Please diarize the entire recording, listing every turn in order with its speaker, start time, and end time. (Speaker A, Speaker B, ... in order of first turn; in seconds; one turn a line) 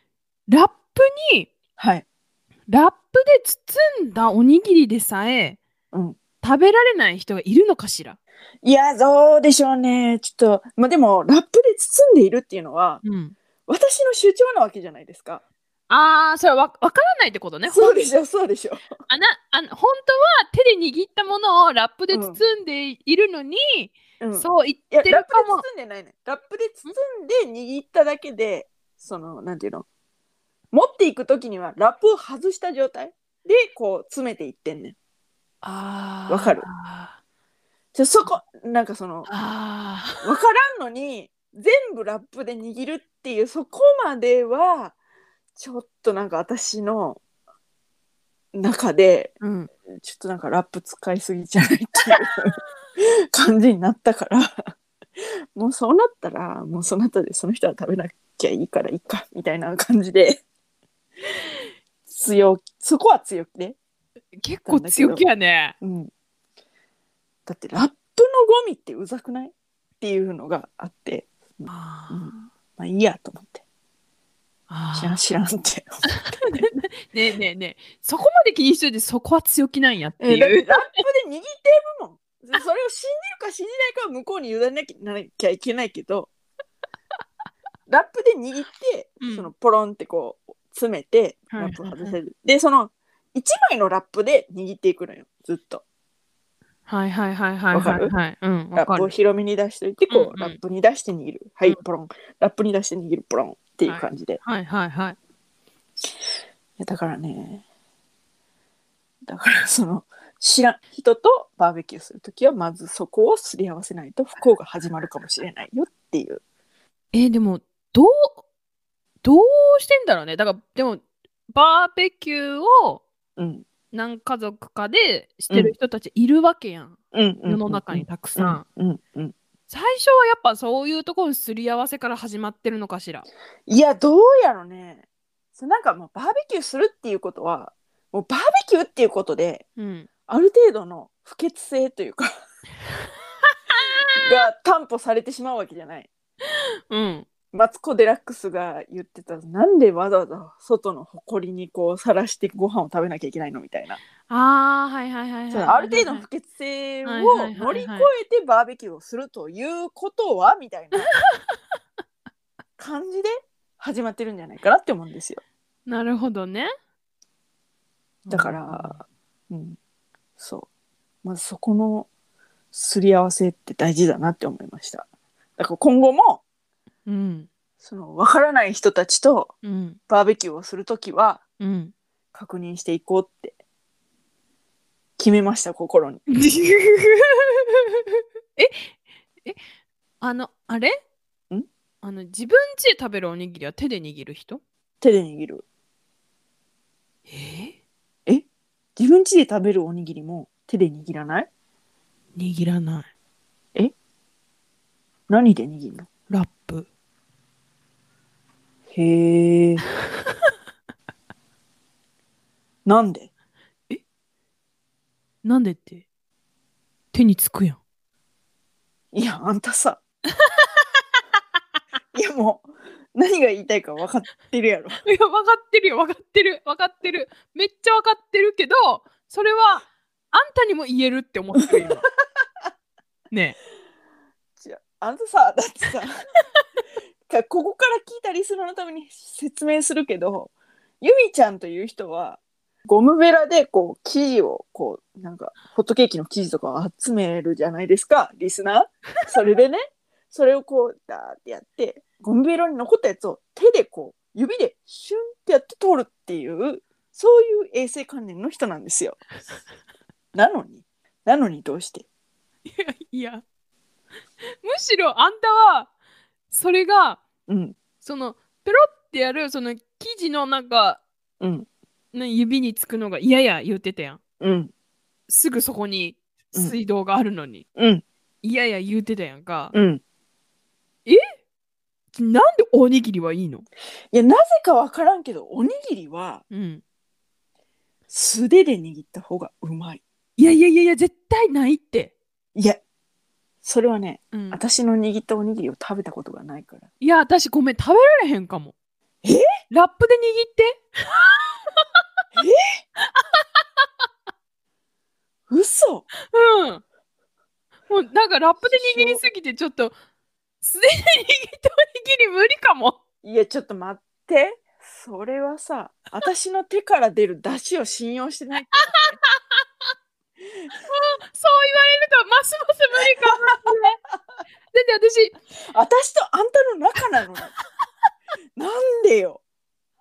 Speaker A: 0.5-1.5
Speaker B: 1.8-2.0
Speaker A: 2.7-5.6
Speaker B: 5.9-6.2
Speaker A: 6.4-8.2
Speaker B: 8.6-13.0
Speaker A: 13.0-13.3
Speaker B: 13.7-15.4
Speaker A: 15.9-18.0
Speaker B: 17.6-18.8
Speaker A: 19.1-25.6
Speaker B: 22.1-22.4
Speaker B: 24.2-29.9
Speaker B: 30.7-35.0
Speaker A: 35.6-37.2
Speaker B: 36.3-36.7
Speaker B: 37.9-39.3
Speaker A: 39.3-40.2
Speaker B: 40.2-45.0
Speaker B: 45.5-47.2
Speaker B: 48.5-49.3
Speaker A: 49.4-49.7
Speaker B: 50.0-54.7
Speaker B: 55.5-60.4
Speaker B: 62.1-63.8
Speaker A: 64.4-65.7
Speaker B: 64.6-65.2
Speaker B: 65.8-66.1
Speaker B: 67.5-73.6
Speaker A: 71.7-72.3
Speaker A: 74.7-75.2
Speaker B: 74.9-76.6
Speaker A: 76.2-80.8
Speaker B: 80.2-86.3
Speaker B: 87.9-95.8
Speaker A: 89.2-89.5
Speaker A: 91.5-92.2
Speaker A: 96.9-99.1
Speaker B: 97.7-98.1
Speaker B: 98.7-104.4
Speaker A: 100.1-100.6
Speaker A: 103.8-105.2
Speaker B: 106.8-107.6
Speaker B: 109.3-116.4
Speaker A: 117.1-118.4
Speaker A: 119.2-123.0
Speaker B: 123.4-123.6
Speaker A: 123.9-128.6
Speaker B: 127.1-129.3
Speaker A: 129.7-133.2
Speaker B: 133.7-135.0
Speaker B: 135.6-139.7
Speaker A: 139.8-140.1
Speaker B: 140.3-142.3
Speaker A: 143.7-144.3
Speaker B: 144.1-146.1
Speaker A: 146.9-147.3
Speaker B: 147.5-154.0
Speaker A: 154.3-156.2
Speaker B: 155.5-161.1
Speaker A: 157.0-158.1
Speaker B: 162.8-165.4
Speaker A: 165.8-166.7
Speaker A: 168.2-169.0
Speaker B: 168.3-169.8
Speaker B: 170.4-170.7
Speaker B: 171.2-172.1
Speaker B: 172.7-176.4
Speaker A: 177.1-177.5
Speaker B: 177.8-179.5
Speaker A: 179.6-180.0
Speaker B: 180.1-181.4
Speaker A: 181.6-181.9
Speaker B: 182.3-183.6
Speaker B: 185.2-186.2
Speaker A: 186.3-188.9
Speaker A: 190.2-191.0
Speaker A: 192.0-194.6
Speaker B: 195.0-195.6
Speaker A: 197.3-197.7
Speaker B: 198.9-201.5
Speaker A: 202.3-203.1
Speaker B: 205.3-206.1
Speaker A: 206.3-206.9
Speaker B: 208.9-209.9
Speaker B: 212.8-213.3
Speaker A: 215.4-216.0
Speaker A: 217.1-217.8
Speaker B: 219.1-220.0
Speaker B: 222.1-225.0
Speaker A: 225.0-232.0
Speaker B: 231.6-231.9
Speaker A: 233.3-233.6
Speaker B: 234.6-236.2
Speaker B: 237.3-259.2
Speaker B: 260.3-262.1
Speaker A: 262.6-263.4
Speaker A: 264.6-265.9
Speaker A: 266.5-267.2
Speaker B: 267.5-267.8
Speaker A: 268.0-271.0
Speaker B: 271.4-271.7
Speaker A: 272.1-274.2
Speaker B: 274.4-274.7
Speaker A: 275.3-277.6
Speaker B: 277.8-278.0
Speaker A: 278.4-279.7
Speaker B: 279.7-280.0
Speaker A: 282.1-283.6
Speaker B: 284.1-286.4
Speaker A: 286.5-286.8
Speaker B: 288.1-290.0
Speaker A: 290.4-292.1
Speaker B: 292.5-292.8
Speaker B: 293.6-296.9
Speaker A: 294.3-294.6
Speaker A: 297.0-298.7
Speaker A: 299.7-301.8
Speaker B: 302.3-302.8
Speaker A: 303.0-303.6
Speaker B: 305.5-306.1
Speaker A: 306.2-306.8
Speaker A: 307.9-309.9
Speaker B: 308.7-309.2
Speaker A: 310.6-313.0
Speaker B: 313.2-319.1
Speaker A: 320.9-324.0
Speaker B: 323.0-323.6
Speaker A: 324.7-325.3
Speaker B: 325.7-327.5
Speaker B: 328.6-329.4